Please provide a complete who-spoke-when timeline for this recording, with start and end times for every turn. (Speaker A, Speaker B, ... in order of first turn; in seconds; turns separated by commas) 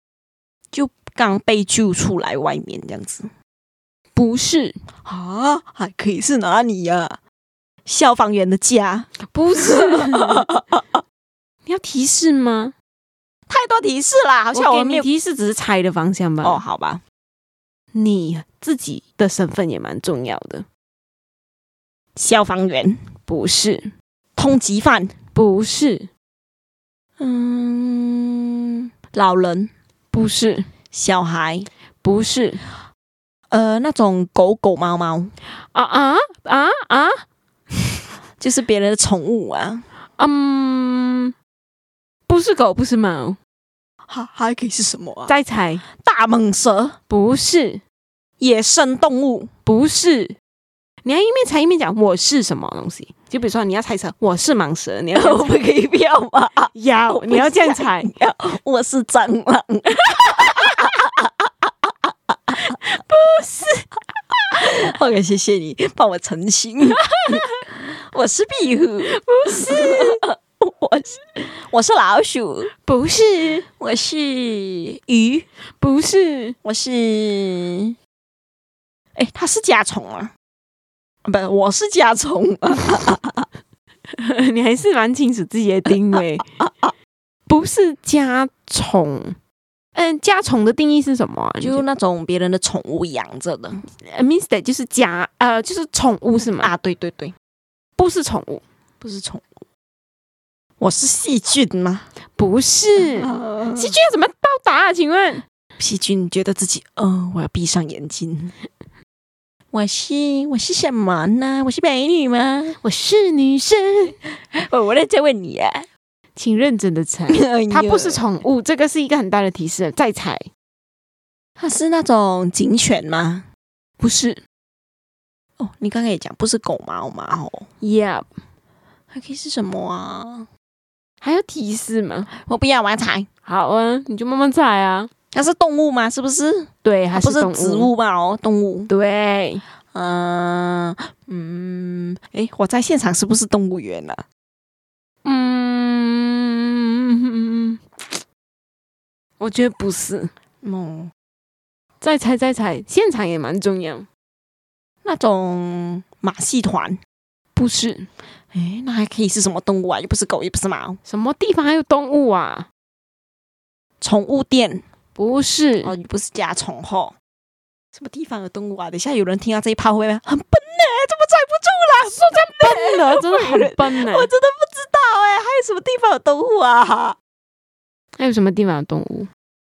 Speaker A: 0.7-3.3, Speaker B: 4.1-4.8, Speaker A: 5.0-7.2, Speaker A: 7.8-11.0, Speaker B: 9.2-10.5, Speaker B: 11.7-12.7, Speaker A: 13.5-15.1, Speaker B: 14.5-16.6, Speaker A: 16.4-17.0, Speaker B: 17.9-20.6, Speaker A: 22.1-23.0, Speaker B: 23.3-23.9, Speaker A: 24.4-25.1, Speaker B: 25.3-26.1, Speaker A: 27.2-29.7, Speaker B: 30.1-30.7, Speaker A: 30.9-31.7, Speaker B: 32.0-32.7, Speaker A: 33.5-35.3, Speaker B: 35.6-37.2, Speaker A: 38.4-39.8, Speaker B: 40.2-41.3, Speaker B: 42.3-43.4, Speaker A: 44.1-45.3, Speaker B: 45.3-45.8, Speaker A: 45.9-47.0, Speaker B: 47.1-47.8, Speaker A: 48.4-49.5, Speaker B: 49.6-50.4, Speaker B: 51.0-55.6, Speaker A: 55.1-62.5, Speaker B: 56.7-58.1, Speaker B: 62.6-63.9, Speaker A: 64.6-72.7, Speaker B: 67.2-67.6, Speaker B: 69.0-70.2, Speaker B: 72.7-73.7, Speaker A: 73.8-75.5, Speaker B: 75.7-76.5, Speaker A: 76.6-78.0, Speaker A: 79.1-80.3, Speaker A: 81.2-83.5, Speaker B: 84.1-86.4, Speaker A: 86.6-86.9, Speaker B: 87.5-89.4, Speaker B: 89.9-91.8, Speaker A: 91.6-93.8, Speaker B: 93.8-96.7, Speaker A: 96.6-97.3, Speaker B: 98.0-98.6, Speaker A: 99.0-99.5, Speaker A: 100.8-102.1, Speaker B: 102.3-105.4, Speaker A: 103.0-103.9, Speaker A: 105.8-108.5, Speaker A: 109.7-112.8, Speaker B: 112.8-114.2, Speaker A: 114.3-115.9, Speaker B: 116.3-120.5, Speaker A: 117.3-118.2, Speaker A: 121.6-123.5, Speaker B: 124.0-124.4, Speaker A: 125.6-127.7, Speaker B: 127.8-128.3, Speaker A: 129.1-130.5, Speaker B: 131.2-132.3, Speaker A: 132.3-133.3, Speaker B: 133.4-135.1, Speaker A: 135.3-138.9, Speaker B: 136.8-137.9, Speaker B: 138.9-139.6, Speaker A: 139.9-144.2, Speaker B: 145.2-148.2, Speaker B: 149.4-150.3, Speaker A: 150.6-151.1, Speaker B: 152.0-154.1, Speaker A: 155.0-157.0, Speaker B: 157.5-158.1, Speaker A: 158.5-161.0, Speaker B: 161.1-162.7, Speaker A: 164.0-164.8, Speaker B: 165.1-165.9, Speaker A: 165.8-167.1, Speaker A: 167.9-177.2, Speaker B: 172.0-174.3, Speaker B: 178.2-179.3